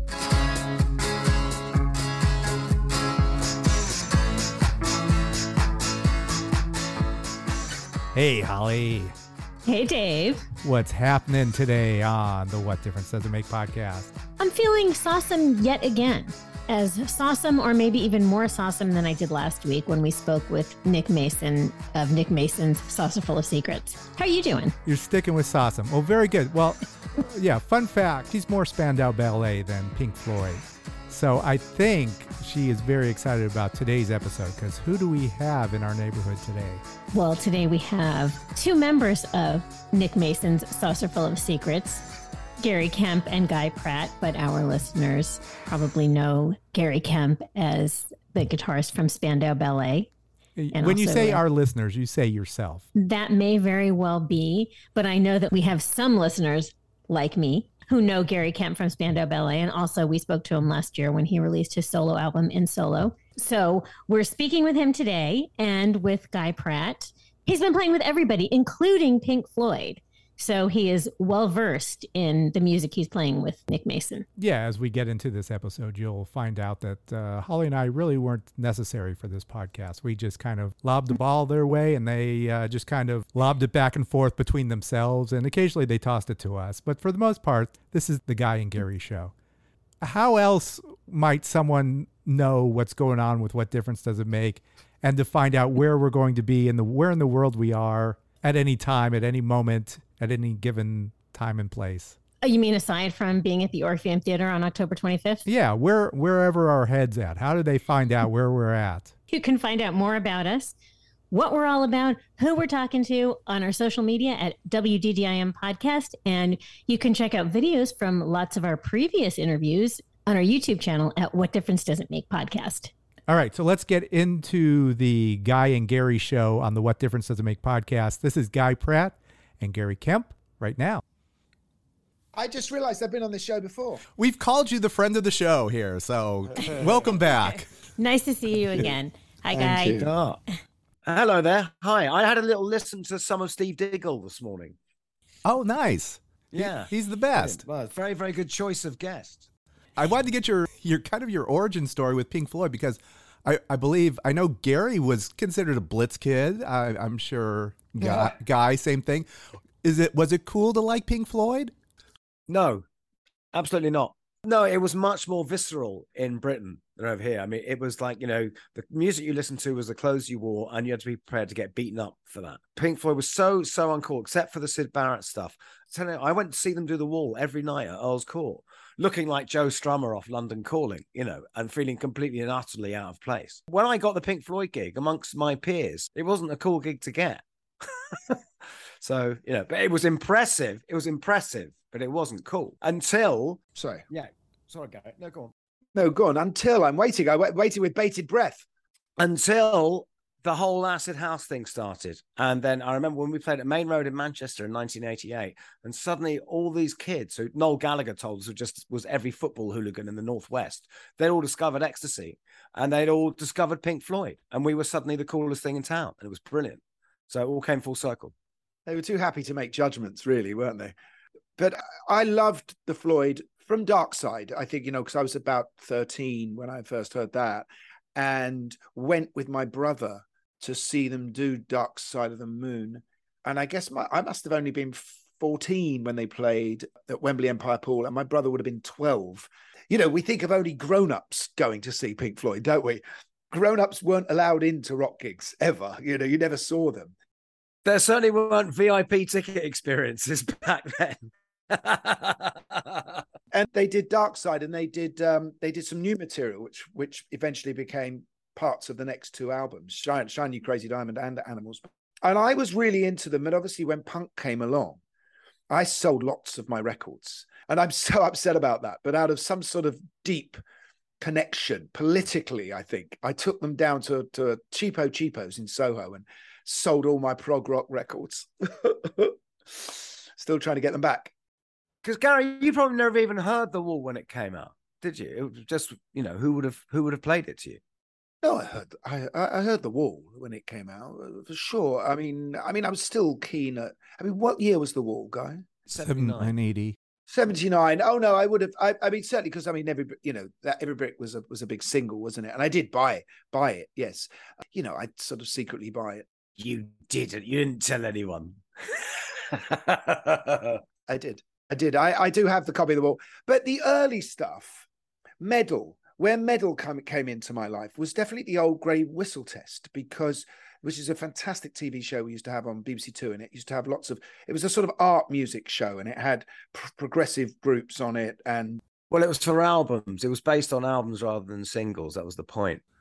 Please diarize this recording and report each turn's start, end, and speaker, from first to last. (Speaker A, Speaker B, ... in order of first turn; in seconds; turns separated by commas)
Speaker A: 8.2-9.1, Speaker B: 9.7-10.5, Speaker A: 10.6-14.1, Speaker B: 14.4-24.8, Speaker A: 24.9-36.8, Speaker B: 37.1-42.0, Speaker B: 42.6-50.1, Speaker A: 50.6-52.9, Speaker B: 50.7-51.4, Speaker B: 53.0-74.3, Speaker A: 74.4-89.3, Speaker A: 90.0-102.2, Speaker B: 102.4-105.4, Speaker A: 105.5-109.1, Speaker B: 109.3-110.8, Speaker B: 111.3-122.9, Speaker A: 123.3-131.0, Speaker C: 132.3-134.0, Speaker D: 134.2-137.7, Speaker B: 137.4-140.1, Speaker E: 139.5-140.4, Speaker E: 141.1-144.8, Speaker D: 145.4-147.7, Speaker E: 146.5-149.5, Speaker D: 150.0-159.3, Speaker E: 158.0-158.3, Speaker D: 159.8-161.7, Speaker E: 162.5-162.8, Speaker E: 163.5-188.4, Speaker E: 189.0-195.5, Speaker C: 193.8-194.0, Speaker C: 195.9-198.7, Speaker E: 199.2-218.3, Speaker C: 218.9-220.9, Speaker C: 221.6-247.1, Speaker E: 247.8-253.2, Speaker C: 253.5-265.0, Speaker C: 265.7-270.6, Speaker C: 271.2-281.3, Speaker E: 282.0-287.8, Speaker C: 288.4-295.7, Speaker E: 295.9-296.5, Speaker D: 296.0-297.0, Speaker C: 297.3-306.3, Speaker E: 306.6-310.8, Speaker C: 311.1-314.9, Speaker C: 315.4-328.8, Speaker E: 329.1-332.8